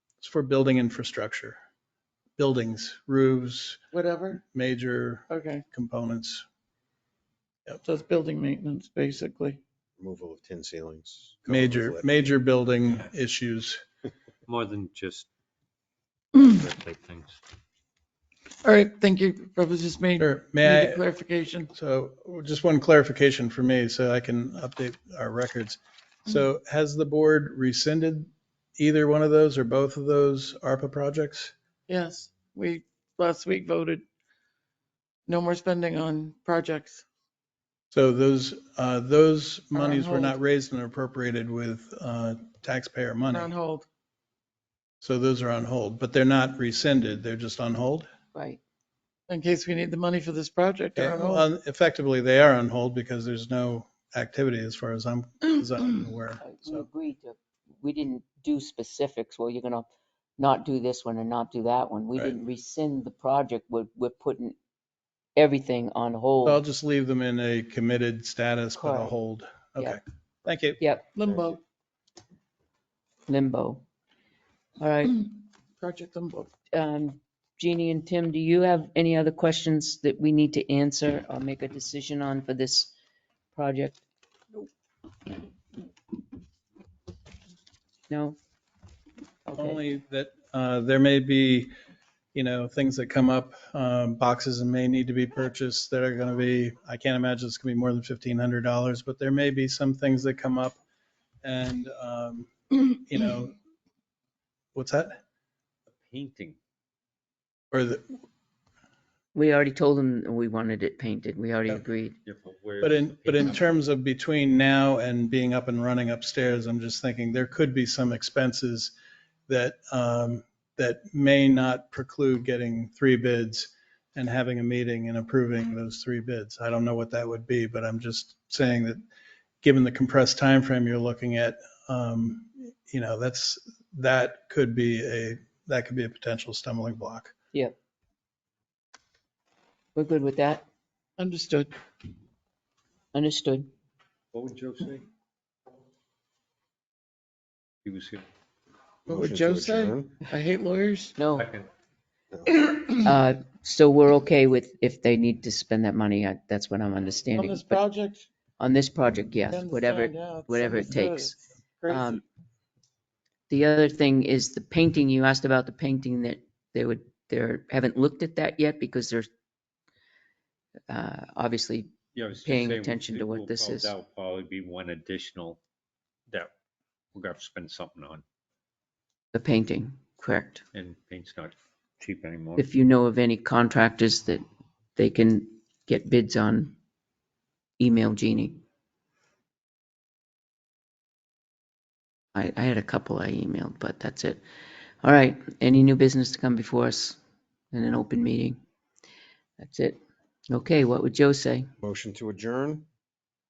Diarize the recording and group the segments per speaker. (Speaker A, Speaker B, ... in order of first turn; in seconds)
Speaker A: 0.2-1.6, 2.4-3.8, 4.5-6.5, 11.5-13.8, 20.2-21.0, 21.7-31.5, 37.9-43.5, 45.0-48.1, 51.0-56.9, 66.4-70.8, 89.5-91.7, 92.3-100.8, 101.4-103.6, 104.7-105.2, 107.7-108.1, 112.8-118.9, 119.5-129.0, 129.6-137.3
Speaker B: 3.9-4.4, 5.3-5.6, 7.8-9.6, 18.6-21.7, 31.9-34.0, 35.3-37.0, 39.7-40.4, 43.3-43.9, 49.3-51.5, 71.1-71.6, 75.8-76.5, 141.2-141.7, 149.1-151.2, 157.3-158.3, 159.5-162.2
Speaker C: 10.0-12.1, 149.1-150.2, 152.3-152.7, 201.8-202.8
Speaker D: 14.5-15.3, 16.3-17.4, 105.9-106.6, 112.2-113.7, 144.3-145.1, 147.8-148.2, 151.3-151.7, 172.1-175.6, 177.1-178.2, 180.7-182.7
Speaker E: 48.3-48.6, 56.4-64.6, 65.4-66.6, 68.8-69.1, 70.8-71.1, 73.3-73.8, 74.8-75.2, 76.7-82.9, 83.5-84.0, 88.1-88.4, 89.5-89.8, 109.3-112.2, 139.9-140.7, 143.1-143.7, 151.2-151.5, 153.0-157.8, 158.6-161.3, 161.9-162.2, 163.5-169.3, 170.9-173.9, 179.3-180.6, 182.6-184.4, 184.9-186.8, 187.8-188.6, 192.3-194.4, 195.0-197.2, 197.7-198.6, 199.6-201.7